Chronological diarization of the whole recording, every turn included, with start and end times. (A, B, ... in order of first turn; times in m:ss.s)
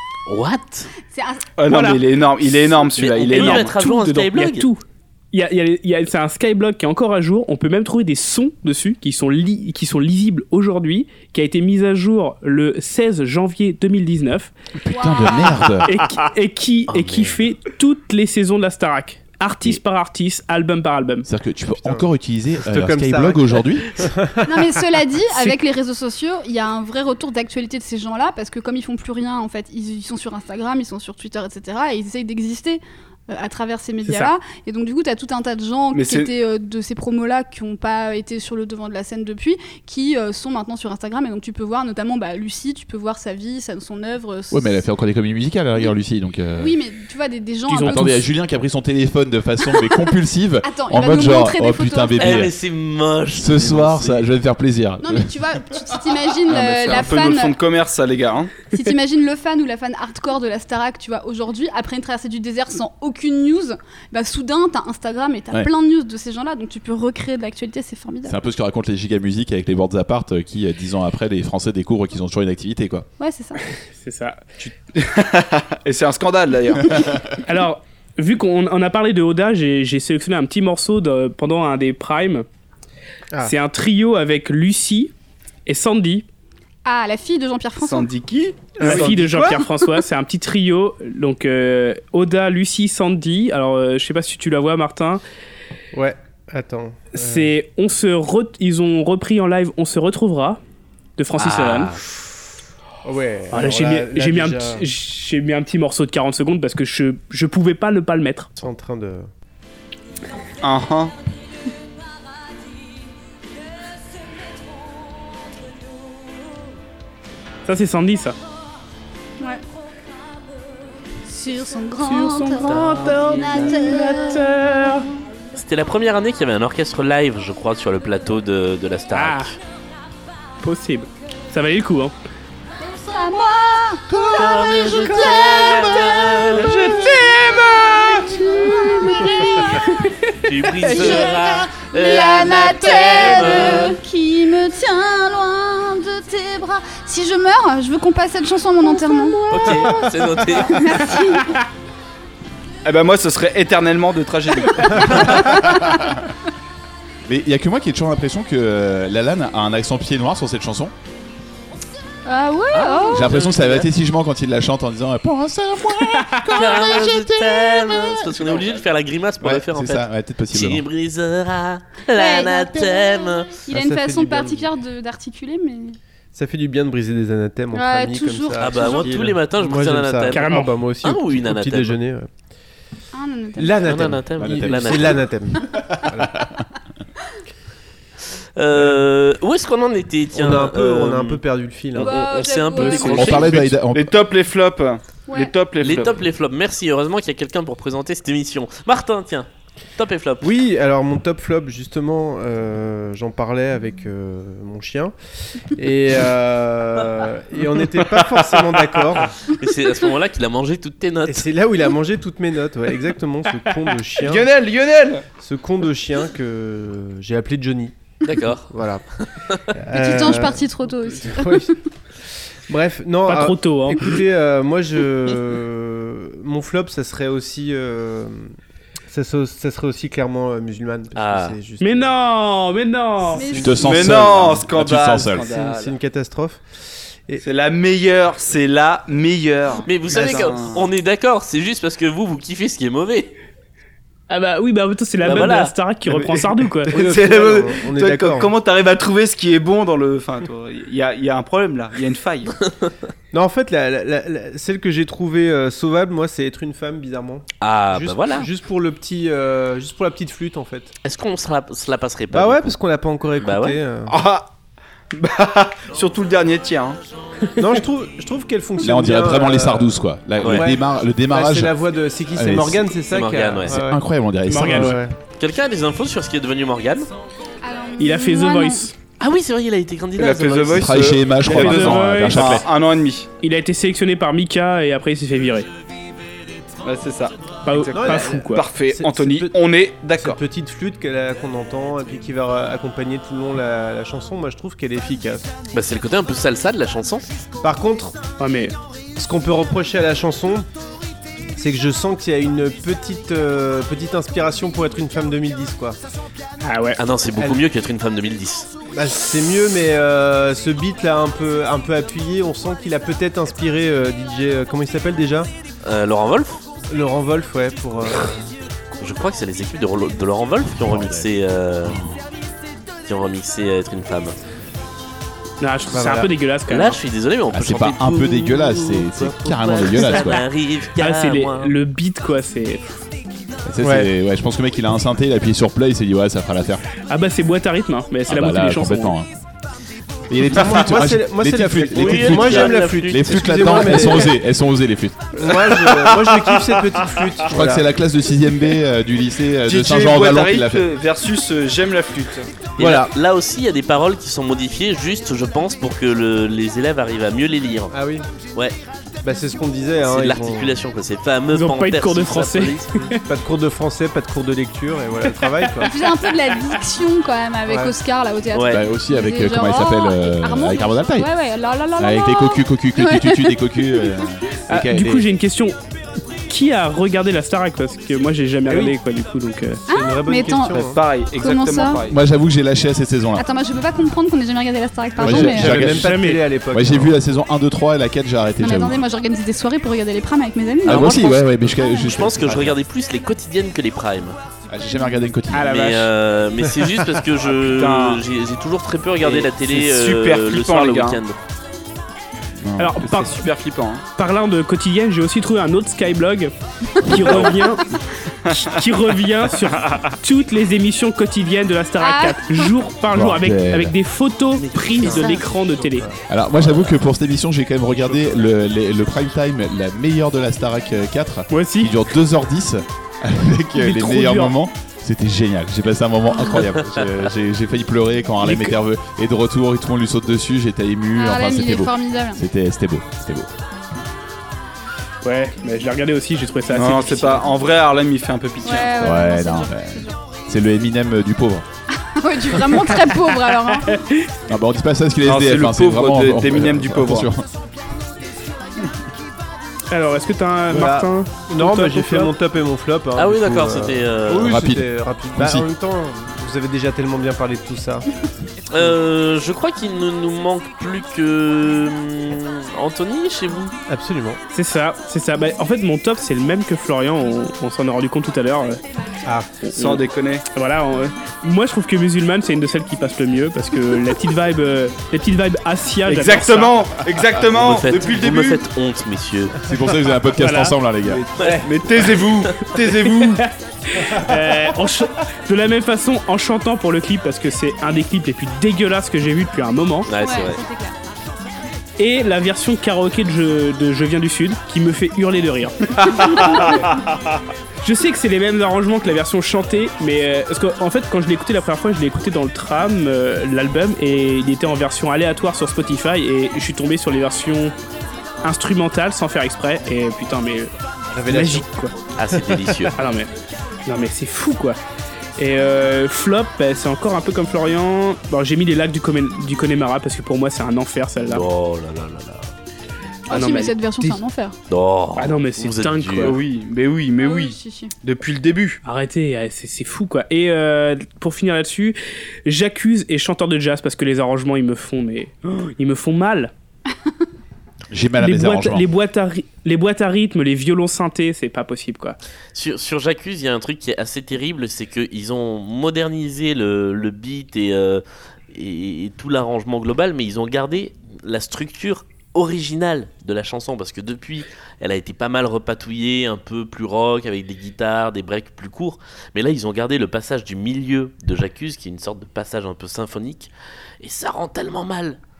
0:00.3-0:00.9 A
0:01.1-0:01.4 B
0:01.6-0:03.8 C
0:01.6-0:02.0 D
0:02.9-0:04.7 A
0:03.2-0:14.5 D
0:14.8-0:15.9 E
0:14.9-0:15.7 B
0:15.8-0:21.2 D
0:16.9-0:17.4 A
0:21.2-0:24.0 E
0:21.8-0:22.0 F
0:22.6-0:24.5 F
0:24.4-0:44.8 B
0:34.0-0:34.3 D
0:35.9-0:36.3 C
0:44.5-0:46.8 E
0:46.6-0:48.2 B
0:47.7-0:48.1 D
0:47.7-0:52.5 E
0:50.6-0:52.4 B
0:52.2-0:54.2 A
0:53.4-0:55.4 E
0:55.0-0:57.6 B
0:56.5-0:58.6 C
0:58.7-1:08.4 B
1:08.2-1:13.1 E
1:13.2-1:13.6 B
1:13.9-1:14.4 D
1:14.6-1:17.3 C
1:17.4-1:22.4 D
1:23.4-1:25.1 D
1:25.6-1:26.2 D
1:26.8-1:28.1 B
1:27.8-1:29.0 C
1:28.8-1:29.7 F
1:28.8-1:35.2 D
1:35.9-1:37.5 F
1:37.1-1:40.6 D
1:41.2-1:42.0 D
1:41.4-1:42.0 A
1:43.0-1:44.8 F
1:43.5-1:48.5 D
1:48.6-1:49.3 F
1:50.6-1:51.1 C
1:57.6-1:58.4 D
2:01.3-2:05.1 B
2:02.0-2:05.1 D
2:02.6-2:03.8 A
2:05.6-2:09.6 A
2:09.1-2:09.5 D
2:10.6-2:12.1 D
2:12.8-2:19.9 B
2:14.3-2:16.8 A
2:16.6-2:18.1 D
2:18.7-2:20.3 D
2:20.4-2:24.0 A
2:20.8-2:21.2 D
2:20.8-2:31.6 B
2:29.5-2:31.0 A
2:32.8-2:35.5 C
2:34.8-2:36.1 B
2:35.5-2:36.1 E
2:37.2-2:40.9 E
2:42.2-2:43.4 B
2:42.7-2:43.9 A
2:43.1-2:48.6 E
2:46.5-2:53.6 A
2:49.4-2:50.8 E
2:52.1-2:56.0 B
2:53.7-2:54.7 F
2:56.3-3:02.3 F
2:57.7-2:59.1 B
2:58.6-3:02.0 A
3:00.3-3:00.7 D
3:03.1-3:03.8 B
3:03.6-3:06.4 F
3:03.8-3:05.2 A
3:04.4-3:06.6 E
3:08.6-3:11.4 A
3:08.7-3:09.0 F
3:10.3-3:12.2 F
3:11.9-3:13.7 A
3:12.0-3:13.5 B
3:12.7-3:13.4 D
3:13.2-3:14.1 E
3:13.9-3:16.2 C
3:15.3-3:15.5 B
3:15.8-3:20.5 A
3:20.4-3:25.1 F
3:25.7-3:29.4 F
3:29.4-3:31.5 A
3:31.2-3:34.5 F
3:34.2-3:35.2 C
3:35.4-3:37.9 F
3:38.2-3:39.6 A
3:38.7-3:39.0 F
3:39.7-3:41.7 F
3:39.9-3:41.8 B
3:42.7-3:48.5 F
3:43.3-3:44.2 D
3:49.1-3:52.2 F
3:51.1-3:51.6 A
3:51.8-3:53.6 D
3:53.3-3:53.8 B
3:53.3-3:54.2 F
3:53.6-3:55.5 E
3:53.7-3:56.0 C
3:55.3-3:56.6 F
3:57.4-4:00.9 C
3:59.8-4:03.3 A
4:04.3-4:07.0 D
4:05.2-4:05.7 A
4:06.1-4:12.5 C
4:06.9-4:08.5 F
4:13.3-4:20.9 F
4:17.6-4:18.5 A
4:21.0-4:22.7 A
4:22.3-4:24.1 F
4:23.4-4:23.8 A
4:24.1-4:24.5 C
4:25.1-4:27.0 C
4:27.6-4:34.0 F
4:28.8-4:31.8 E
4:30.4-4:30.7 A
4:32.3-4:32.9 E
4:33.1-4:33.8 A
4:33.7-4:35.0 E
4:34.5-4:35.0 D
4:34.7-4:35.1 F
4:35.4-4:37.1 A
4:37.6-4:38.9 B
4:38.0-4:38.9 D
4:39.2-4:41.0 A
4:40.2-4:43.3 C
4:40.7-4:42.6 E
4:41.4-4:42.6 D
4:43.4-4:45.7 D
4:46.8-4:50.4 C
4:47.6-4:48.7 D
4:47.9-4:49.6 F
4:50.1-4:55.4 F
4:55.7-4:57.2 A
4:57.6-4:58.2 F
4:58.4-4:58.7 D
4:59.2-5:00.7 F
5:01.6-5:06.0 F
5:06.6-5:07.0 D
5:07.0-5:08.7 A
5:07.4-5:07.6 F
5:08.9-5:15.5 F
5:15.8-5:16.6 A
5:16.9-5:18.5 F
5:19.0-5:22.0 A
5:20.8-5:21.3 E
5:21.8-5:22.2 E
5:23.0-5:24.4 A
5:25.6-5:27.0 D
5:25.9-5:26.3 F
5:26.7-5:31.7 A
5:27.5-5:30.4 E
5:31.0-5:33.0 D
5:33.6-5:36.8 E
5:33.8-5:34.1 F
5:37.1-5:39.1 D
5:38.3-5:39.3 E
5:40.3-5:45.4 E
5:40.4-5:44.3 F
5:41.9-5:44.3 A
5:45.4-5:47.2 C
5:45.4-5:47.9 F
5:47.5-5:50.8 E
5:49.6-5:52.5 C
5:52.8-5:57.9 A
5:52.8-5:53.1 F
5:57.9-5:58.2 F
5:59.2-6:00.8 F
6:00.0-6:03.1 A
6:01.5-6:03.2 D
6:03.3-6:05.9 F
6:05.4-6:05.9 D
6:05.8-6:14.1 B
6:07.7-6:07.9 F
6:08.5-6:08.8 A
6:08.7-6:11.3 E
6:12.0-6:15.2 E
6:14.7-6:15.8 D
6:16.5-6:19.8 D
6:18.7-6:19.0 F
6:19.9-6:21.0 F
6:19.9-6:20.8 B
6:20.8-6:22.2 C
6:21.4-6:22.0 B
6:22.0-6:23.4 E
6:23.4-6:25.7 B
6:25.2-6:26.2 E
6:25.2-6:27.2 F
6:25.7-6:26.4 D
6:26.7-6:29.0 E
6:28.6-6:32.1 B
6:30.8-6:31.4 A
6:30.8-6:32.8 E
6:32.0-6:34.4 A
6:34.7-6:35.7 E
6:35.5-6:36.1 D
6:35.6-6:41.4 A
6:37.6-6:38.2 C
6:39.2-6:41.2 C
6:42.6-6:43.0 E
6:42.8-6:43.5 D
6:43.0-6:44.0 C
6:44.2-6:47.9 D
6:47.2-6:47.6 C
6:48.4-6:48.8 C
6:48.5-6:56.1 D
6:49.6-6:50.2 C
6:52.0-6:52.7 B
6:53.1-6:54.0 E
6:54.6-6:55.5 A
6:55.0-6:56.2 F
6:56.3-7:13.5 E
7:01.5-7:01.9 D
7:03.8-7:04.6 D
7:06.6-7:07.1 A
7:08.4-7:08.7 D
7:11.1-7:12.4 B
7:15.2-7:17.6 D
7:16.7-7:19.1 C
7:18.6-7:20.2 B
7:19.0-7:21.6 E
7:22.0-7:24.0 B
7:23.9-7:24.3 D
7:24.5-7:27.5 E
7:25.2-7:27.3 C
7:29.9-7:32.3 D
7:30.7-7:38.0 F
7:33.1-7:34.6 A
7:34.4-7:35.7 E
7:38.7-7:43.7 A
7:43.9-7:44.4 F
7:44.5-7:48.8 D
7:49.6-7:56.8 D
7:49.7-7:50.4 C
7:56.0-7:58.6 C
7:57.5-7:59.6 A
7:59.6-8:01.2 E
8:00.4-8:00.8 D
8:01.0-8:03.4 C
8:03.1-8:10.1 D
8:10.0-8:10.6 A
8:10.2-8:11.0 B
8:12.0-8:16.9 D
8:17.8-8:27.7 D
8:28.4-8:30.7 D
8:31.1-8:31.7 F
8:31.3-8:31.9 D
8:32.2-8:32.9 A
8:32.5-8:32.9 F
8:32.9-8:33.3 D
8:33.8-8:34.8 D
8:35.4-8:41.4 D
8:41.3-8:42.5 A
8:43.3-8:44.5 B
8:43.3-8:44.2 D
8:44.7-8:46.4 A
8:45.1-8:46.4 D
8:46.2-8:48.8 C
8:47.2-8:47.9 B
8:48.8-8:56.5 D
8:57.9-8:58.9 E
8:58.2-9:02.2 D
9:02.5-9:25.2 A